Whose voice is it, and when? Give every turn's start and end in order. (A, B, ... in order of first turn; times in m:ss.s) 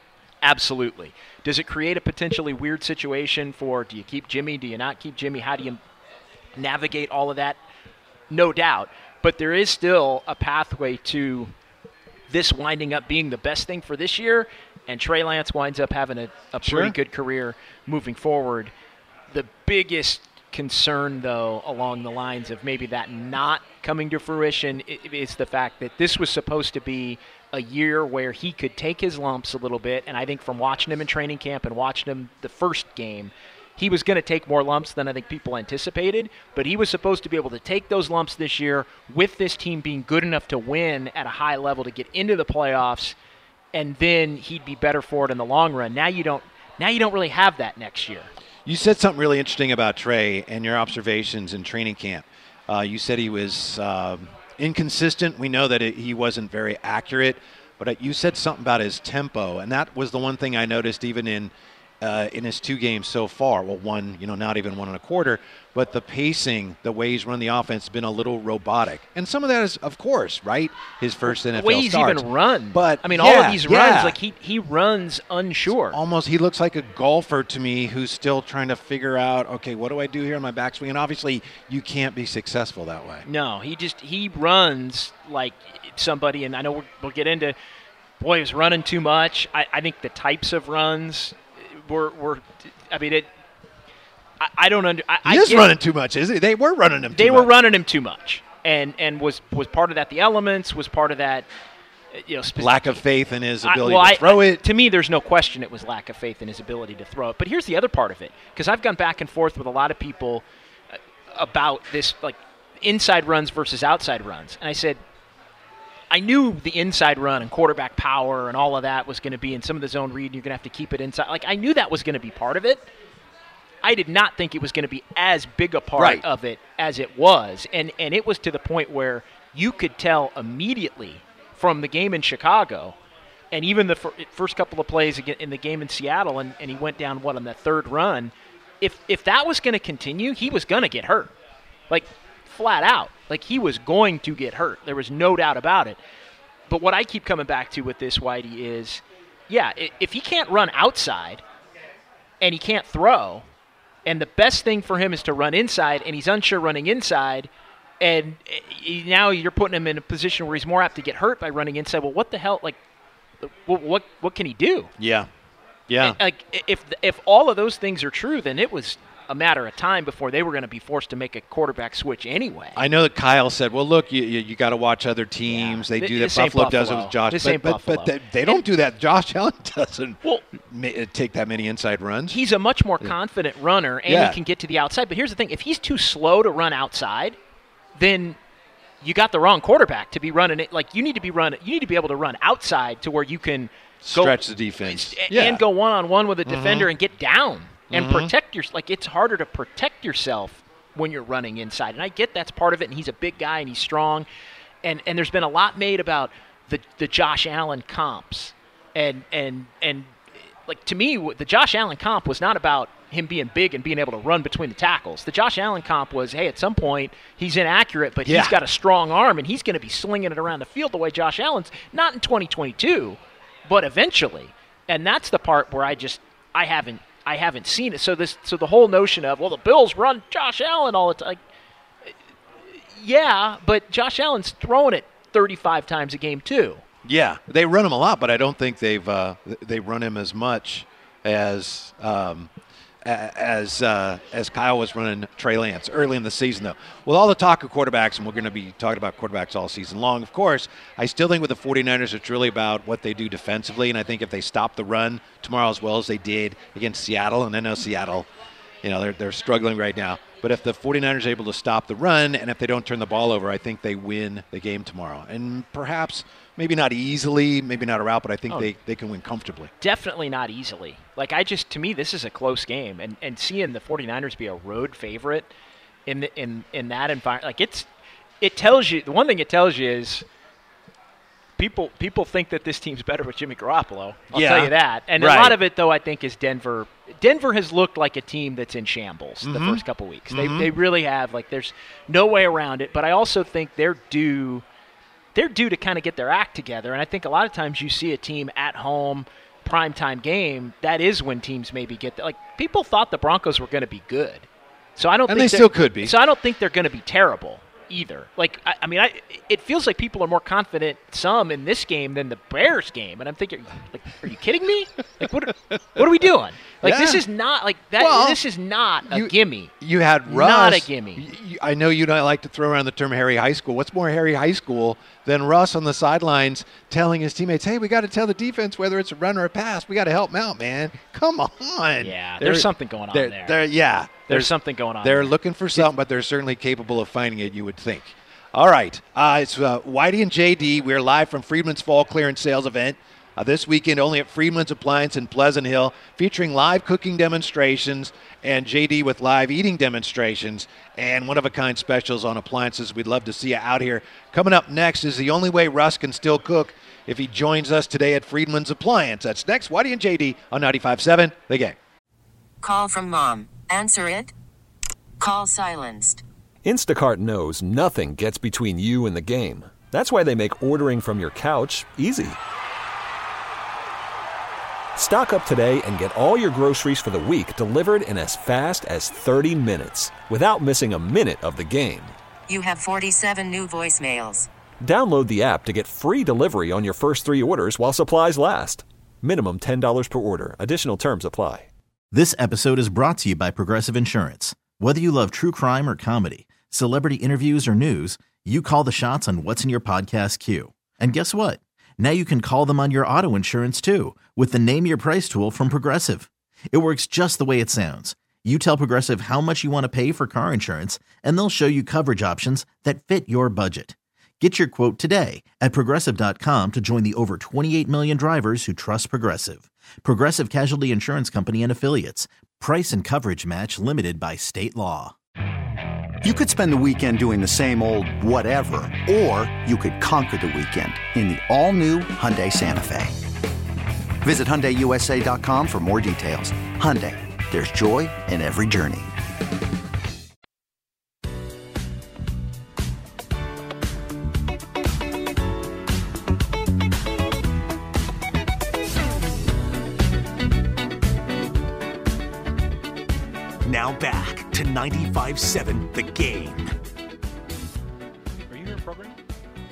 0:00.4-0:05.8 A
0:06.6-0:07.6 A
0:08.3-0:11.5 A
0:12.3-0:18.7 A
0:16.6-0:17.0 B
0:19.3-0:43.2 A
0:43.7-0:48.3 A
0:48.6-1:14.2 B
1:11.3-1:16.0 A
1:15.9-1:23.2 B
1:23.2-1:27.6 A
1:28.2-1:33.3 A
1:34.4-1:35.7 A
1:35.2-1:37.5 B
1:37.1-1:41.5 A
1:42.1-1:43.0 A
1:42.6-1:44.6 B
1:43.6-1:50.4 A
1:51.3-1:55.0 A
1:56.1-2:02.9 A
2:03.8-2:13.0 A
2:06.0-2:06.2 B
2:13.5-2:21.3 A
2:21.9-2:26.0 A
2:26.7-2:31.4 A
2:32.4-2:33.4 A
2:34.1-2:37.5 A
2:38.0-2:42.8 A
2:43.4-2:44.9 A
2:45.0-2:45.3 B
2:45.9-2:46.2 B
2:46.0-2:52.8 A
2:52.8-3:02.4 B
2:55.5-2:58.6 A
3:02.3-3:07.4 A
3:04.1-3:04.4 B
3:08.0-3:08.4 A
3:09.0-3:24.3 A
3:14.0-3:15.6 B
3:16.5-3:16.9 B
3:17.9-3:18.3 B
3:24.8-3:51.4 A
3:38.2-3:38.6 B
3:52.8-3:56.8 A
3:57.0-4:02.5 B
4:03.0-4:18.3 B
4:18.8-4:29.7 B
4:29.8-4:35.5 A
4:36.1-4:37.9 A
4:38.4-4:40.2 A
4:41.6-4:54.6 A
4:44.3-4:45.6 B
4:49.4-4:50.7 B
4:55.4-5:19.7 A
5:05.3-5:06.2 B
5:16.8-5:17.2 B
5:18.0-5:18.4 B
5:19.1-6:01.8 B
5:20.3-5:21.2 A
5:32.0-5:33.6 A
5:34.3-5:35.9 A
6:02.6-6:04.3 C
6:05.2-6:06.2 C
6:06.6-6:12.4 D
6:15.0-6:22.1 D
6:22.5-6:24.5 C
6:24.8-6:31.7 D
6:32.1-7:05.1 E
7:06.2-7:13.2 F
7:14.2-7:19.1 F
7:33.7-7:36.6 G
7:38.5-7:39.2 A